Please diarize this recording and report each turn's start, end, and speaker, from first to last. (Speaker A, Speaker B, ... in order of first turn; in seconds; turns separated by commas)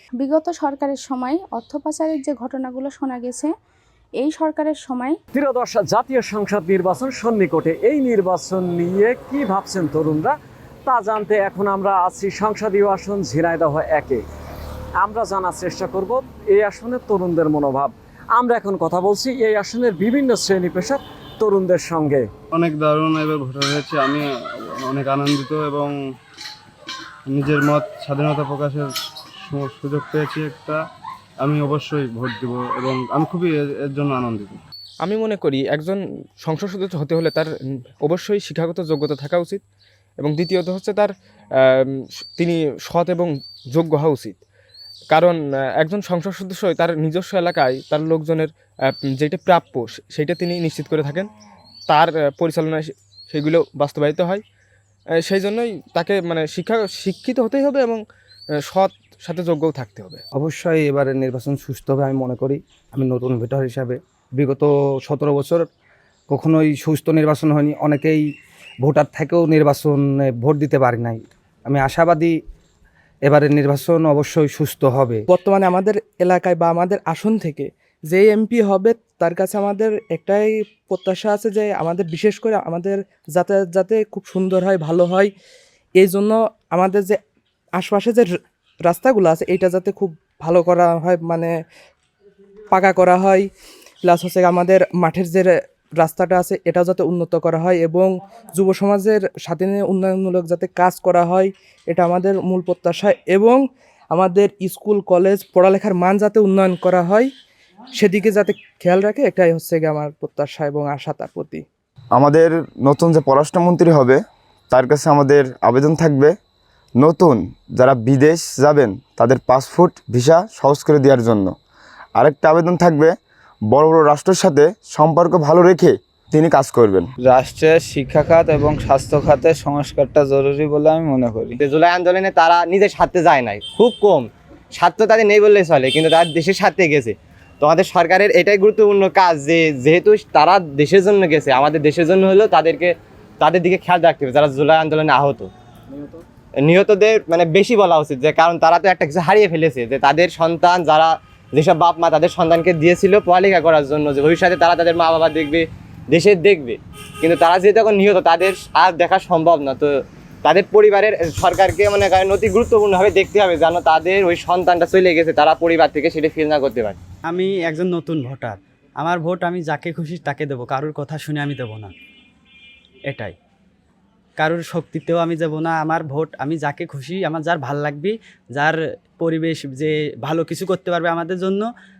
Speaker A: 0.2-3.5, Speaker A: 4.2-5.1, Speaker B: 5.3-14.2, Speaker B: 15.0-22.3, Speaker C: 22.5-24.2, Speaker C: 24.8-25.9, Speaker C: 27.3-28.9, Speaker C: 29.4-30.8, Speaker C: 31.4-34.6, Speaker D: 35.0-37.5, Speaker D: 38.0-39.6, Speaker D: 40.2-44.4, Speaker D: 45.1-48.5, Speaker D: 49.2-51.3, Speaker D: 51.9-54.4, Speaker D: 55.2-58.0, Speaker D: 58.6-60.2, Speaker E: 60.3-65.7, Speaker E: 66.3-68.2, Speaker E: 68.8-72.4, Speaker E: 73.2-75.2, Speaker F: 75.3-85.3, Speaker F: 86.0-87.2, Speaker F: 87.8-88.3, Speaker F: 88.8-91.5, Speaker F: 92.7-93.5, Speaker F: 94.0-107.3, Speaker F: 108.0-111.6, Speaker G: 112.1-116.3, Speaker G: 117.0-121.5, Speaker G: 122.2-123.1, Speaker G: 123.7-127.1, Speaker H: 127.2-131.5, Speaker I: 131.6-145.5, Speaker I: 146.6-167.0, Speaker J: 167.3-171.9, Speaker J: 174.4-181.6